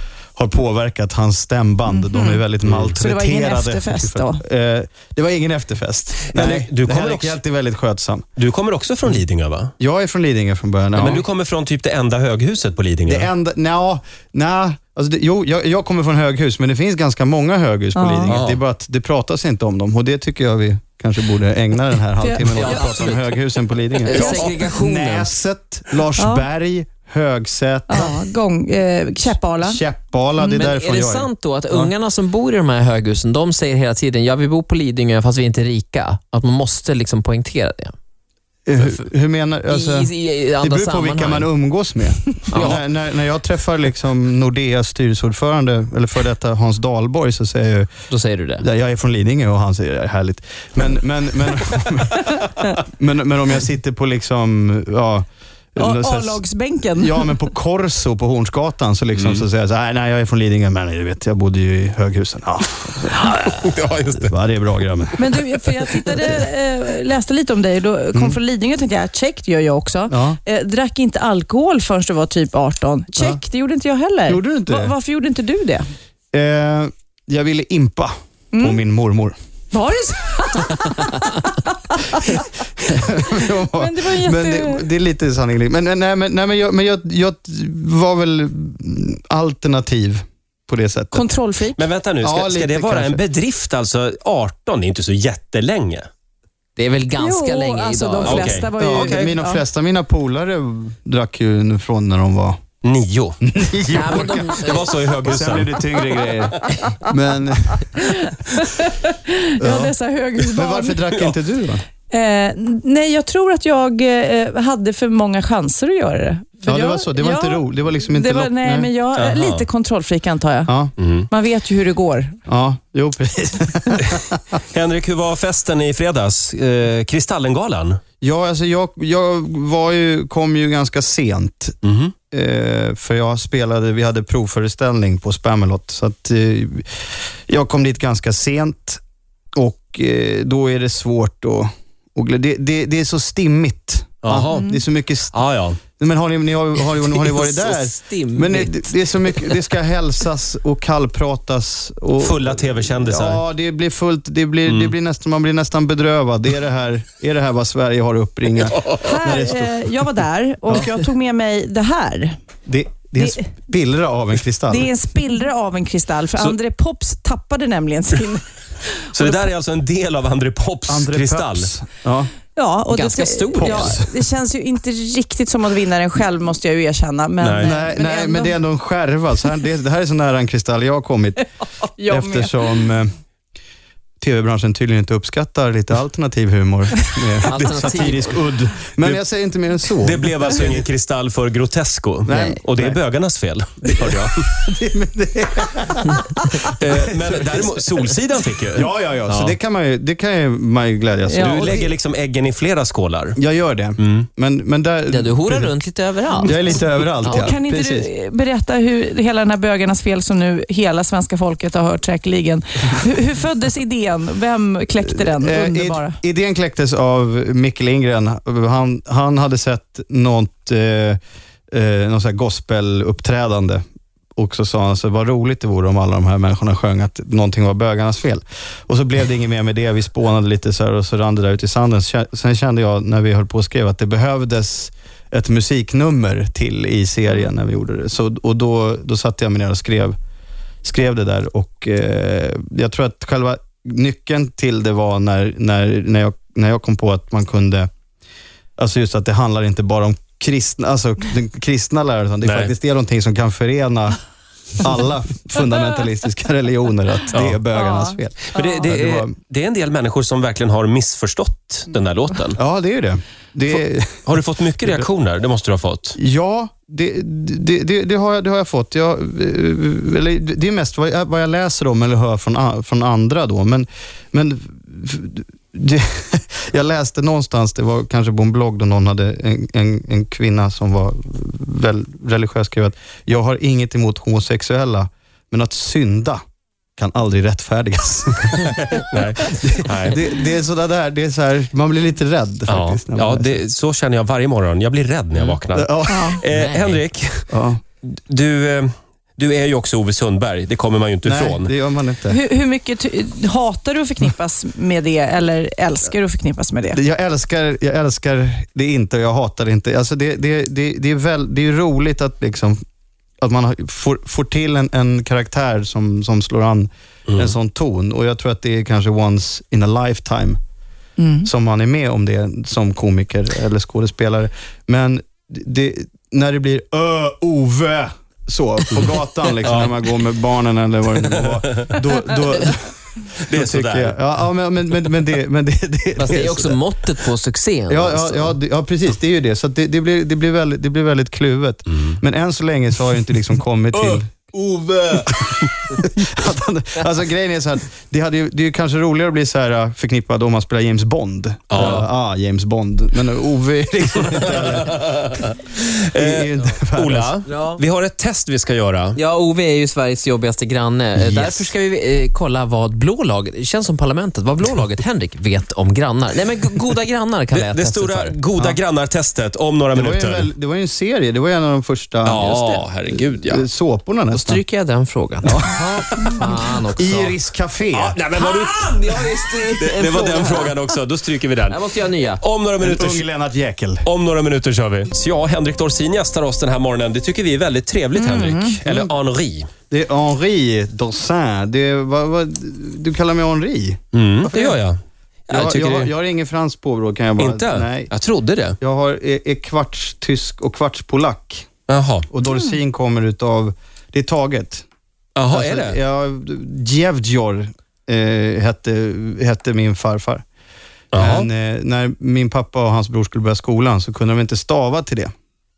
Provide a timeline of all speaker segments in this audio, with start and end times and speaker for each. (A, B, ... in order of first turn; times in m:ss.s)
0:00.4-0:08.2 A
0:01.9-0:02.4 B
0:02.6-0:02.9 C
0:03.0-0:04.4 B
0:06.3-0:07.4 C
0:08.4-0:09.7 C
0:09.8-0:11.2 A
0:10.9-0:13.3 C
0:13.0-0:28.2 A
0:18.0-0:18.4 B
0:18.3-0:18.6 C
0:22.2-0:22.9 B
0:22.5-0:23.4 D
0:24.0-0:24.6 B
0:24.0-0:25.3 D
0:26.2-0:26.4 B
0:27.9-0:29.8 B
0:29.5-0:31.9 A
0:30.5-0:37.9 D
0:38.6-0:47.9 A
0:39.7-0:41.5 D
0:42.5-0:42.8 D
0:48.1-0:48.6 D
0:48.6-1:03.3 A
0:55.8-0:57.3 B
0:59.1-0:59.4 C
1:03.4-1:04.3 C
1:04.2-1:05.3 A
1:05.2-1:15.9 B
1:08.1-1:08.4 A
1:10.1-1:10.4 A
1:13.1-1:13.4 A
1:14.2-1:14.9 A
1:16.3-1:19.4 A
1:18.5-1:18.8 B
1:19.7-1:22.5 B
1:22.3-1:31.3 A
1:23.0-1:24.9 B
1:31.1-1:31.8 B
1:31.7-1:36.1 C
1:32.2-1:33.2 A
1:36.8-1:38.6 D
1:37.2-1:39.6 B
1:38.2-1:39.3 C
1:38.8-1:42.6 A
1:42.8-1:43.4 C
1:43.4-1:48.0 A
1:43.9-1:44.9 D
1:43.9-1:45.9 C
1:48.0-1:51.0 B
1:49.6-1:51.8 A
1:52.1-2:00.7 B
1:56.7-1:58.9 A
1:59.2-1:59.6 C
2:00.7-2:00.9 A
2:01.0-2:01.3 C
2:01.3-2:02.4 B
2:02.5-2:04.4 A
2:04.7-2:08.0 C
2:08.2-2:11.8 A
2:11.8-2:12.1 C
2:12.3-2:19.0 A
2:19.5-2:25.3 A
2:24.2-2:24.7 C
2:24.5-2:24.8 B
2:25.3-2:25.8 C
2:26.0-2:39.9 A
2:27.1-2:29.6 D
2:32.2-2:33.4 C
2:34.6-2:34.9 C
2:38.7-2:39.1 C
2:38.9-2:42.4 B
2:42.7-2:44.9 A
2:43.2-2:43.4 B
2:44.7-2:48.5 B
2:49.1-2:51.7 C
2:49.2-2:49.5 B
2:50.9-2:52.3 A
2:52.5-2:58.6 B
2:52.9-2:54.0 D
2:53.5-2:54.3 A
2:57.4-2:57.7 C
2:57.6-3:01.4 A
3:02.0-3:02.9 B
3:02.0-3:03.1 A
3:04.2-3:10.3 A
3:07.4-3:08.4 D
3:10.0-3:14.4 C
3:12.2-3:13.0 A
3:13.8-3:17.8 A
3:16.6-3:19.6 C
3:18.7-3:21.9 A
3:21.3-3:21.7 B
3:21.4-3:23.4 C
3:23.4-3:25.8 A
3:24.0-3:24.3 C
3:25.1-3:26.5 D
3:26.4-3:28.1 A
3:27.2-3:36.2 B
3:35.0-3:41.2 A
3:41.7-3:43.8 A
3:44.4-4:00.1 A
4:00.8-4:07.9 A
4:08.8-4:14.2 A
4:12.4-4:12.7 C
4:14.8-4:19.3 A
4:17.3-4:17.6 C
4:17.8-4:18.9 B
4:18.5-4:22.6 C
4:22.6-4:25.1 A
4:24.2-4:26.2 C
4:26.2-4:46.4 A
4:47.0-4:53.5 A
4:48.9-4:50.2 C
4:52.7-4:57.5 C
4:55.4-4:56.4 A
4:56.1-4:56.4 B
4:56.5-4:57.0 D
4:57.5-4:57.8 A
4:58.0-5:01.7 C
5:01.2-5:02.4 A
5:02.3-5:07.0 B
5:06.9-5:12.8 A
5:13.4-5:20.6 A
5:17.3-5:17.5 C
5:21.2-5:21.5 B
5:21.4-5:36.8 A
5:29.6-5:29.9 C
5:31.4-5:32.1 C
5:33.4-5:34.2 C
5:36.2-5:38.6 D
5:37.9-5:44.4 A
5:41.9-5:42.2 C
5:44.0-5:45.0 D
5:45.2-5:55.1 A
5:51.7-5:52.0 C
5:51.8-5:52.0 D
5:54.3-5:59.2 C
5:56.1-5:57.4 A
5:57.5-5:57.8 D
5:59.2-6:08.4 D
6:01.2-6:01.7 A
6:07.5-6:10.5 C
6:09.9-6:14.6 A
6:12.2-6:13.6 C
6:12.4-6:12.8 D
6:14.3-6:17.4 D
6:15.4-6:18.2 A
6:17.9-6:21.8 C
6:18.4-6:20.8 D
6:21.7-6:22.4 D
6:22.4-6:23.3 C
6:22.8-6:24.1 A
6:24.0-6:29.7 C
6:28.1-6:28.8 B
6:28.8-6:29.2 A
6:29.9-6:34.8 A
6:34.1-6:36.1 C
6:35.5-6:38.1 A
6:37.4-6:38.8 C
6:38.8-6:41.7 A
6:41.9-6:42.3 C
6:42.3-6:44.8 A
6:42.5-6:42.7 B
6:45.4-6:46.0 C
6:45.5-6:50.4 A
6:51.1-6:51.5 C
6:51.2-6:55.3 A